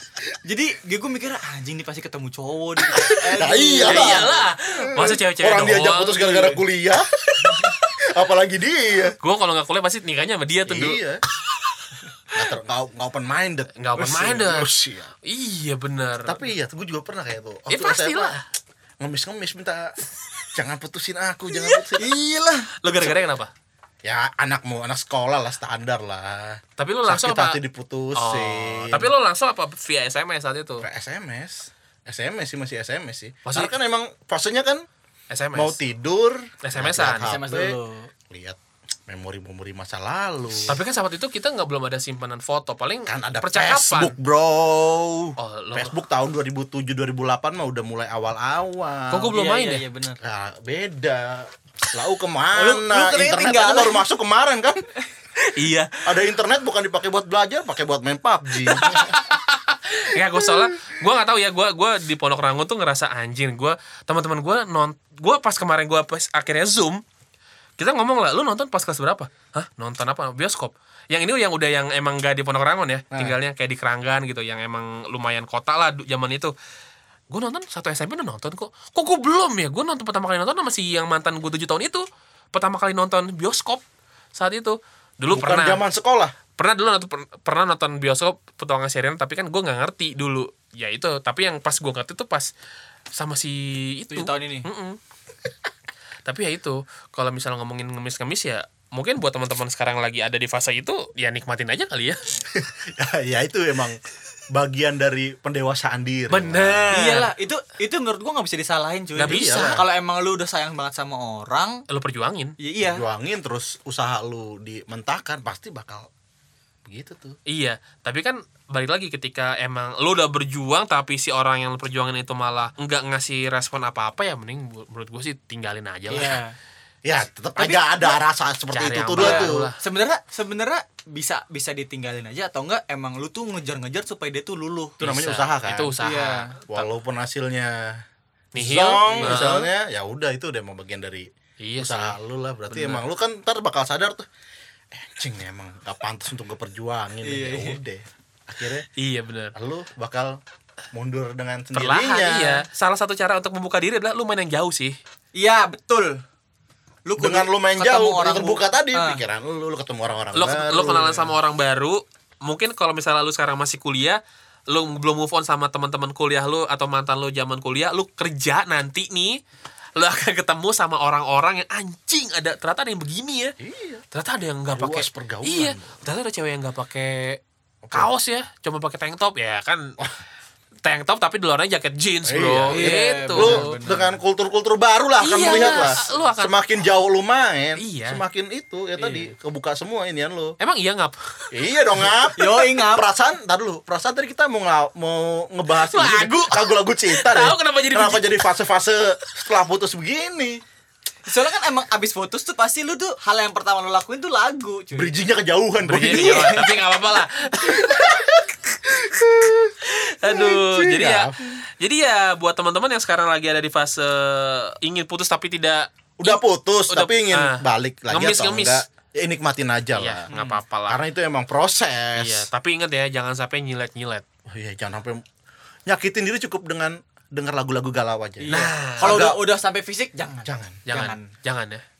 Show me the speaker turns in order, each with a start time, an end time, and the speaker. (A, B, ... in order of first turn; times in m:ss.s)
0:00.4-0:04.4 A
0:03.0-0:03.2 B
0:03.3-0:09.2 C
0:03.8-0:06.5 B
0:07.4-0:07.9 B
0:09.2-0:11.0 B
0:10.7-0:11.2 C
0:12.3-0:15.1 C
0:13.8-0:14.7 B
0:15.2-0:16.5 B
0:16.2-0:18.3 C
0:17.7-0:18.4 B
0:19.0-0:19.9 C
0:20.5-0:22.0 C
0:21.9-0:22.7 A
0:22.8-0:23.5 B
0:24.0-0:29.1 C
0:26.8-0:27.6 B
0:28.2-0:30.8 B
0:30.8-0:34.8 C
0:33.4-0:33.7 B
0:35.3-0:35.8 B
0:35.5-0:37.8 C
0:36.6-0:37.3 B
0:37.2-0:38.1 A
0:38.3-0:40.8 C
0:40.6-0:44.1 B
0:43.0-0:49.3 C
0:45.4-0:45.9 B
0:49.1-0:49.8 B
0:49.3-0:50.2 A
0:50.2-0:54.8 C
0:52.5-0:54.0 A
0:55.5-0:55.9 B
0:56.0-0:59.1 C
0:58.6-1:07.0 B
1:00.4-1:00.9 C
1:07.8-1:16.5 B
1:13.1-1:13.4 C
1:17.3-1:23.8 B
1:24.3-1:25.8 B
1:25.3-1:26.3 C
1:26.6-1:32.5 B
1:33.1-1:35.0 B
1:34.1-1:34.7 A
1:36.2-1:42.2 B
1:42.5-1:44.0 C
1:44.5-1:46.9 C
1:46.3-1:47.3 B
1:46.9-1:51.8 A
1:49.2-1:49.8 B
1:49.2-1:49.8 C
1:51.9-1:52.6 B
1:52.6-1:53.0 A
1:52.8-1:56.1 C
1:56.8-1:57.4 C
1:57.5-2:06.4 B
2:06.1-2:06.5 A
2:07.0-2:09.7 C
2:07.6-2:08.1 A
2:08.7-2:09.8 B
2:09.2-2:15.0 A
2:15.0-2:15.9 C
2:15.0-2:16.9 B
2:16.0-2:16.5 A
2:16.7-2:18.0 C
2:18.5-2:24.2 C
2:18.5-2:19.6 B
2:19.1-2:19.6 A
2:21.6-2:22.2 B
2:22.7-2:23.0 B
2:24.9-2:28.9 C
2:27.2-2:27.8 A
2:29.0-2:29.5 B
2:29.5-2:30.4 C
2:30.9-2:32.6 C
2:31.7-2:35.0 B
2:35.3-2:36.2 A
2:37.1-2:39.2 A
2:37.2-2:41.3 C
2:40.3-2:49.4 B
2:50.0-2:53.5 B
2:53.6-2:54.0 C
2:54.1-2:57.4 B
2:54.7-2:56.0 C
2:57.8-2:58.1 C
2:57.9-2:59.9 B
3:00.8-3:03.7 B
3:02.3-3:10.6 C
3:02.7-3:04.2 A
3:05.2-3:06.5 B
3:05.5-3:06.0 A
3:07.8-3:08.2 B
3:09.0-3:09.3 A
3:10.6-3:11.4 B
3:11.5-3:20.6 C
3:12.4-3:13.1 A
3:15.8-3:18.2 B
3:21.3-3:25.1 A
3:24.9-3:26.7 C
3:25.8-3:28.4 B
3:26.0-3:26.8 A
3:27.7-3:28.3 C
3:28.9-3:31.6 C
3:29.8-3:38.8 B
3:36.2-3:40.2 C
3:40.0-3:41.0 B
3:40.3-3:40.6 A
3:40.9-3:42.5 C
3:42.2-3:44.2 B
3:44.5-3:45.2 C
3:45.9-3:49.4 C
3:48.4-3:51.3 A
3:48.5-3:49.3 B
3:50.4-3:50.8 C
3:50.8-3:51.8 B